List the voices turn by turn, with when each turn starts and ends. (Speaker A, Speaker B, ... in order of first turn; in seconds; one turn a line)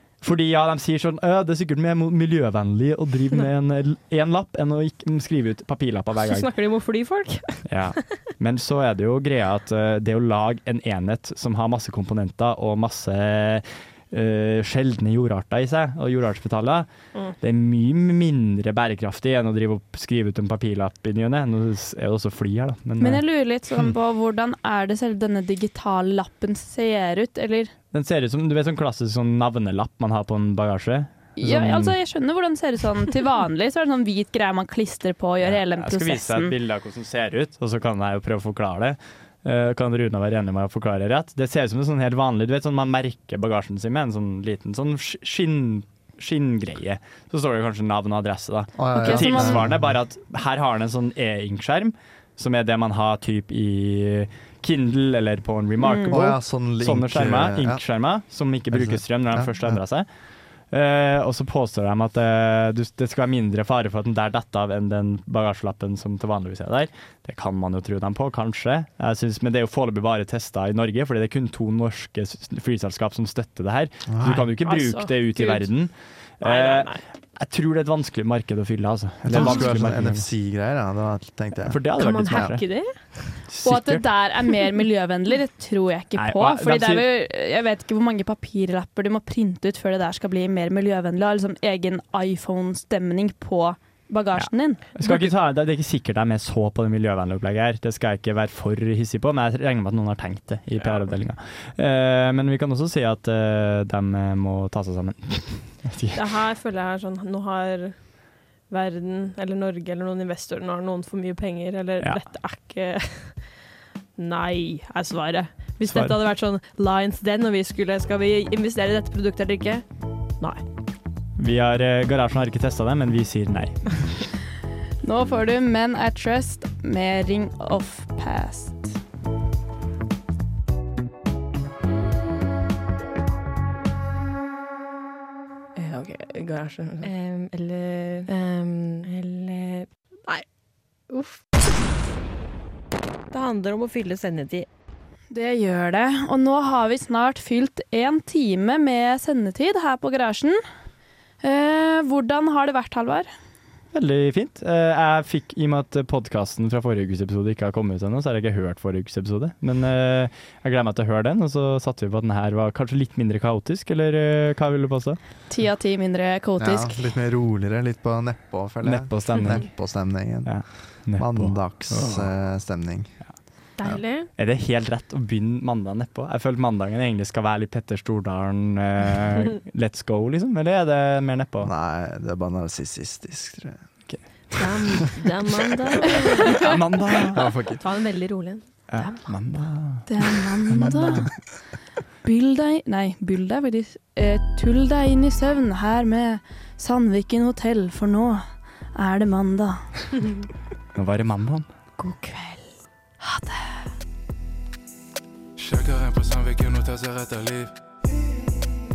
Speaker A: 0.2-6.5
Speaker B: 6.2-8.2
Speaker A: 7.7-23.2
Speaker C: 23.0-27.7
Speaker A: 27.9-31.9
Speaker C: 31.4-36.5
Speaker A: 35.4-80.3
Speaker D: 48.7-49.9
Speaker C: 48.9-49.6
Speaker C: 55.8-56.2
Speaker D: 56.1-57.8
Speaker D: 58.7-59.8
Speaker D: 74.1-74.5
Speaker B: 74.6-77.0
Speaker D: 79.2-82.6
Speaker A: 81.7-82.8
Speaker B: 82.0-83.4
Speaker A: 83.5-84.0
Speaker C: 83.6-94.9
Speaker A: 86.2-87.0
Speaker A: 94.4-106.2
Speaker B: 106.1-113.6
Speaker B: 114.2-119.8
Speaker A: 115.8-116.1
Speaker A: 121.4-124.2
Speaker C: 125.0-128.9
Speaker B: 135.8-140.4
Speaker B: 141.1-141.4
Speaker B: 143.3-144.7
Speaker C: 145.3-150.6
Speaker C: 151.4-153.3
Speaker A: 153.9-165.2
Speaker C: 165.5-166.9
Speaker D: 166.6-174.0
Speaker A: 168.8-172.3
Speaker B: 173.8-174.3
Speaker A: 174.3-181.7
Speaker D: 181.6-183.9
Speaker A: 184.1-184.9
Speaker B: 184.5-186.6
Speaker A: 186.5-187.8
Speaker D: 187.3-187.8
Speaker B: 187.8-189.3
Speaker A: 188.9-191.3
Speaker C: 190.1-191.3
Speaker C: 192.2-199.8
Speaker A: 200.9-201.7
Speaker B: 202.0-202.7
Speaker C: 203.2-203.8
Speaker E: 205.6-207.7